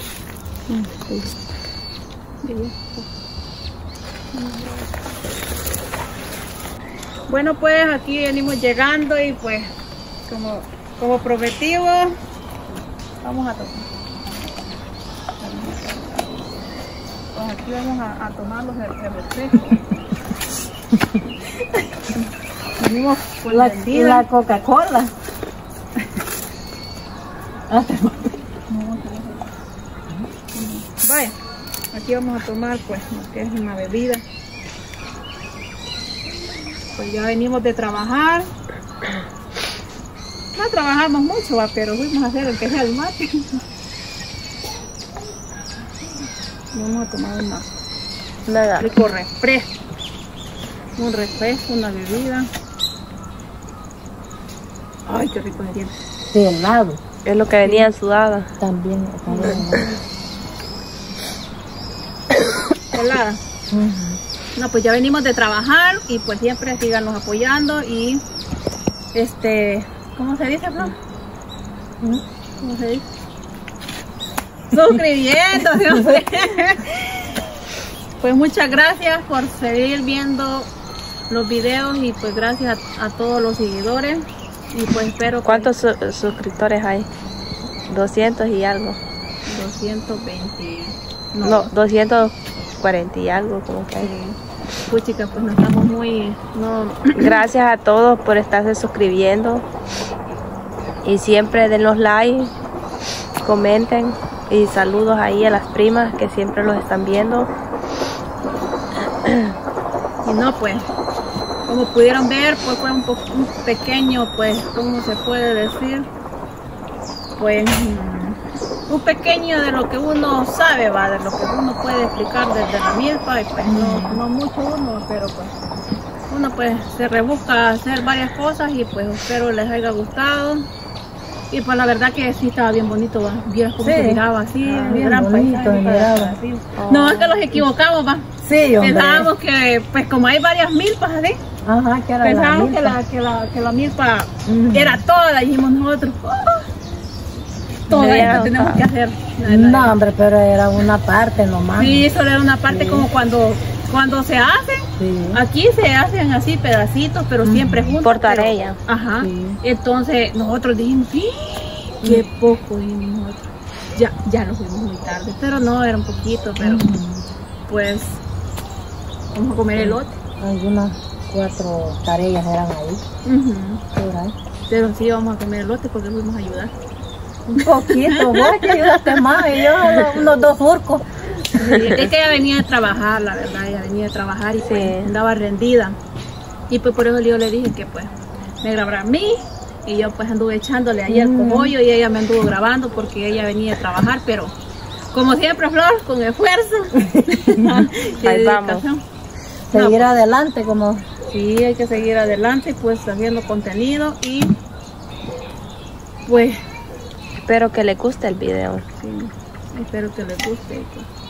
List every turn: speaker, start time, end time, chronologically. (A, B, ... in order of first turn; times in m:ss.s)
0:00.7-0:01.3 A
0:02.4-0:03.1 A
0:04.3-0:04.9 A
0:07.3-0:09.7 A
0:10.2-0:12.1 A
0:13.2-0:13.9 A
0:15.4-0:16.2 A
0:17.3-0:19.8 A
0:22.8-0:24.2 A
0:23.5-0:25.1 B
0:27.7-0:29.5 A
0:30.5-0:31.3 A
0:31.9-0:34.2 A
0:36.9-0:38.5 A
0:40.5-0:43.6 A
0:46.7-0:47.7 A
0:48.5-0:48.9 C
0:48.8-0:49.7 A
0:51.0-0:52.5 A
0:55.1-0:55.9 A
0:56.2-0:57.0 B
0:57.2-0:58.5 C
0:57.6-0:57.9 A
0:58.6-1:00.0 B
0:59.3-0:59.6 A
1:02.9-1:03.4 A
1:03.7-1:04.2 B
1:04.6-1:08.2 A
1:09.1-1:10.9 A
1:12.6-1:13.0 A
1:14.7-1:17.1 A
1:15.8-1:16.2 B
1:18.2-1:20.7 A
1:21.3-1:25.7 A
1:25.4-1:27.1 C
1:27.9-1:29.0 C
1:29.4-1:31.7 A
1:31.4-1:34.1 C
1:34.0-1:37.5 A
1:37.1-1:39.6 C
1:41.0-1:42.5 C
1:43.4-1:47.5 C
1:50.2-1:50.9 A
1:51.7-1:56.1 A
1:57.4-2:05.5 A
2:03.6-2:04.2 B
2:06.3-2:10.7 A
2:11.5-2:18.3 A
2:13.8-2:16.4 B
2:16.8-2:17.6 C
2:18.4-2:19.3 B
2:18.8-2:21.4 A
2:21.6-2:23.0 B
2:22.2-2:26.6 A
2:24.4-2:25.0 B
2:27.9-2:29.9 A
2:27.9-2:28.8 C
2:28.0-2:28.5 B
2:29.4-2:32.1 B
2:31.8-2:46.8 A
2:32.7-2:33.1 B
2:35.0-2:35.4 B
2:37.4-2:38.0 B
2:38.0-2:38.8 C
2:39.2-2:39.6 B
2:46.6-2:47.3 B
2:47.7-2:48.2 A
2:49.3-2:50.2 A
2:49.8-2:53.0 B
2:53.2-2:53.8 A
2:53.9-2:54.3 B
2:54.7-2:56.7 A
2:57.5-3:01.0 B
2:57.6-3:00.3 A
3:01.5-3:06.0 A
3:04.6-3:05.1 C
3:06.7-3:14.5 A
3:11.1-3:11.8 B
3:15.1-3:19.0 A
3:17.0-3:17.9 B
3:18.2-3:18.8 C
3:19.7-3:21.0 B
3:19.7-3:20.1 A
3:21.3-3:24.5 A
3:26.2-3:26.6 A
3:27.4-3:28.8 C
3:29.0-3:31.0 A